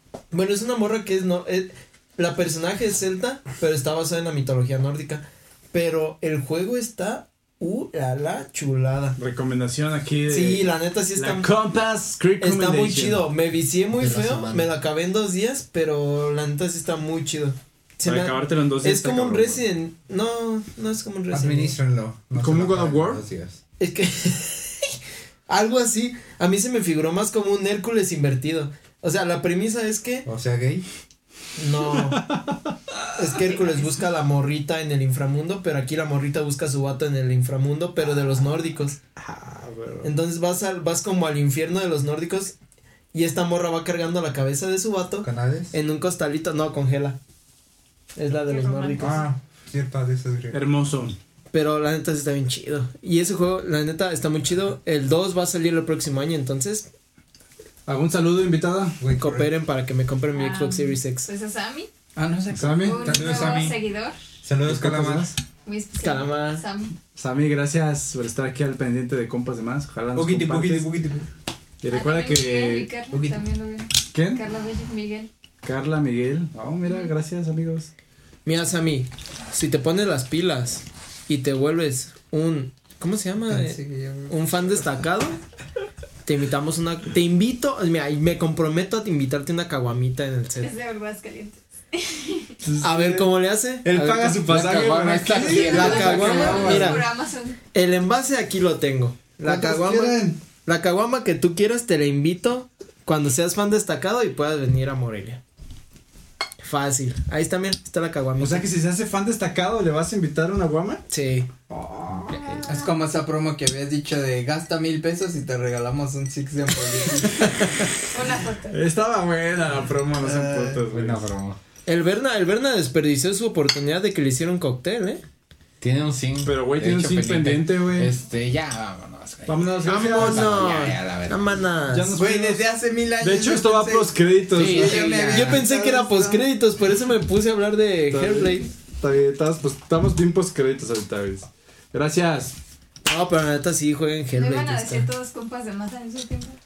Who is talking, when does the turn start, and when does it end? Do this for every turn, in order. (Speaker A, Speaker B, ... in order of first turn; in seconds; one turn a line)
Speaker A: 0.3-9.2
Speaker B: 9.2-13.3
Speaker A: 10.3-11.5
Speaker A: 12.4-21.8
Speaker C: 13.9-14.7
Speaker B: 18.0-19.6
Speaker C: 21.3-23.6
Speaker B: 22.4-23.2
Speaker A: 23.8-24.9
Speaker A: 25.5-30.3
Speaker C: 30.2-30.9
Speaker A: 31.6-32.3
Speaker B: 31.9-33.0
Speaker A: 33.1-39.0
Speaker B: 39.2-40.1
Speaker A: 40.0-42.5
Speaker A: 43.1-47.2
Speaker C: 45.2-45.7
Speaker A: 48.1-49.2
Speaker D: 48.5-49.1
Speaker C: 49.0-50.6
Speaker B: 50.5-51.1
Speaker A: 51.5-56.9
Speaker B: 57.9-59.0
Speaker C: 59.0-59.5
Speaker A: 59.1-61.3
Speaker D: 60.3-61.9
Speaker E: 62.1-63.3
Speaker B: 62.5-63.1
Speaker D: 62.8-64.1
Speaker C: 63.0-63.8
Speaker C: 64.4-65.3
Speaker B: 64.6-65.3
Speaker D: 65.6-67.0
Speaker A: 66.0-66.6
Speaker B: 67.1-70.9
Speaker C: 70.1-71.3
Speaker B: 71.8-72.9
Speaker D: 71.9-75.3
Speaker C: 73.1-73.4
Speaker B: 74.1-74.4
Speaker B: 75.6-77.9
Speaker A: 78.5-85.4
Speaker E: 83.5-84.3
Speaker A: 86.2-90.7
Speaker D: 90.6-92.5
Speaker B: 92.6-93.3
Speaker A: 92.8-94.5
Speaker B: 93.8-96.7
Speaker C: 94.4-97.0
Speaker E: 94.7-96.9
Speaker D: 95.6-97.6
Speaker A: 95.6-97.1
Speaker A: 97.7-105.4
Speaker B: 99.4-100.4
Speaker A: 106.6-108.7
Speaker B: 108.4-111.0
Speaker A: 111.1-111.5
Speaker B: 111.7-112.6
Speaker A: 112.3-112.6
Speaker E: 112.6-118.0
Speaker D: 118.1-118.8
Speaker B: 118.7-121.2
Speaker E: 120.2-120.8
Speaker C: 120.8-121.6
Speaker A: 121.8-125.2
Speaker C: 125.8-131.6
Speaker B: 126.4-128.1
Speaker B: 129.4-130.7
Speaker A: 129.8-132.2
Speaker B: 131.9-132.6
Speaker E: 132.1-136.4
Speaker B: 133.2-135.2
Speaker A: 134.5-138.7
Speaker C: 134.7-135.7
Speaker B: 138.1-142.6
Speaker A: 143.1-145.1
Speaker D: 144.3-146.6